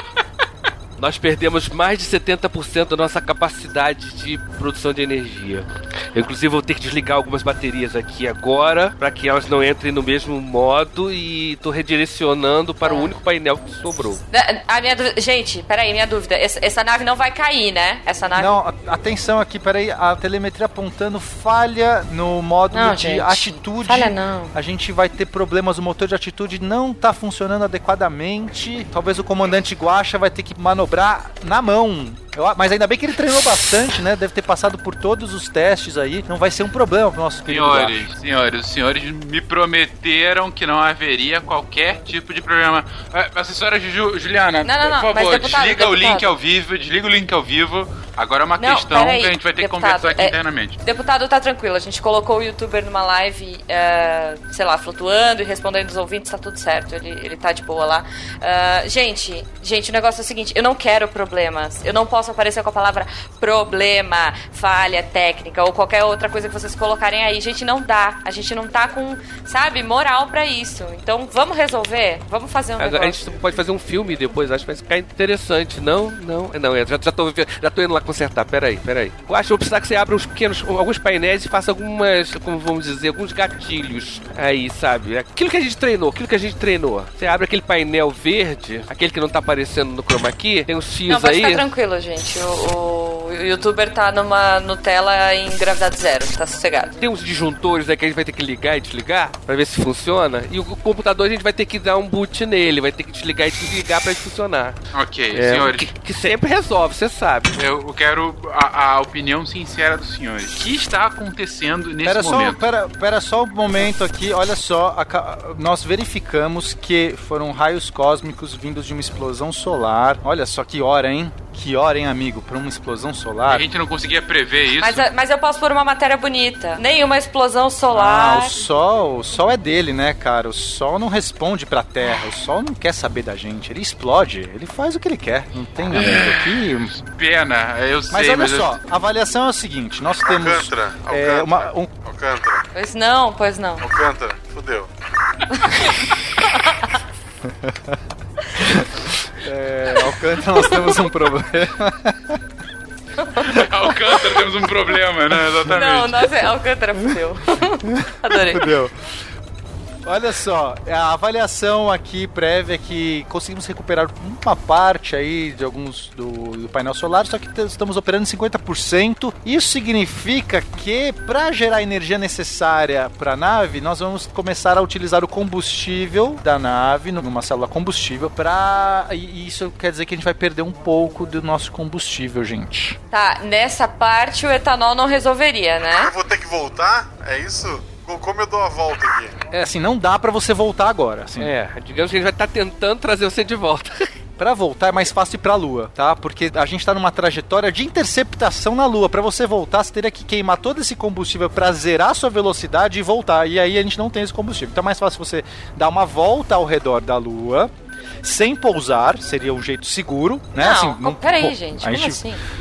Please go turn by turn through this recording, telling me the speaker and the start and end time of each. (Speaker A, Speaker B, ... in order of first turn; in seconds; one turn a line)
Speaker A: 1.0-14.2
Speaker B: 12.8-13.1
Speaker B: 14.3-18.6
Speaker C: 18.3-38.0
Speaker B: 22.7-24.5
Speaker D: 37.5-50.8
Speaker B: 44.6-46.3
Speaker B: 48.6-73.3
Speaker A: 72.8-91.6
Speaker B: 91.1-96.9
Speaker A: 97.0-104.8
Speaker D: 104.9-105.9
Speaker A: 105.3-107.5
Speaker D: 107.5-112.6
Speaker C: 112.0-123.6
Speaker D: 123.5-125.1
Speaker B: 124.8-128.5
Speaker C: 127.9-136.9
Speaker D: 135.9-138.8
Speaker C: 138.1-141.9
Speaker E: 140.2-142.6
Speaker B: 142.7-143.8
Speaker E: 143.8-144.9
Speaker D: 145.7-146.1
Speaker C: 147.4-147.8
Speaker C: 148.6-152.3
Speaker B: 153.2-153.5
Speaker D: 153.4-156.3
Speaker B: 155.7-158.7
Speaker C: 157.9-158.9
Speaker C: 160.1-183.0
Speaker B: 183.1-186.1
Speaker E: 186.0-189.3
Speaker C: 189.5-191.5
Speaker A: 191.4-194.1
Speaker C: 194.4-207.7
Speaker C: 208.2-212.2
Speaker B: 210.6-212.4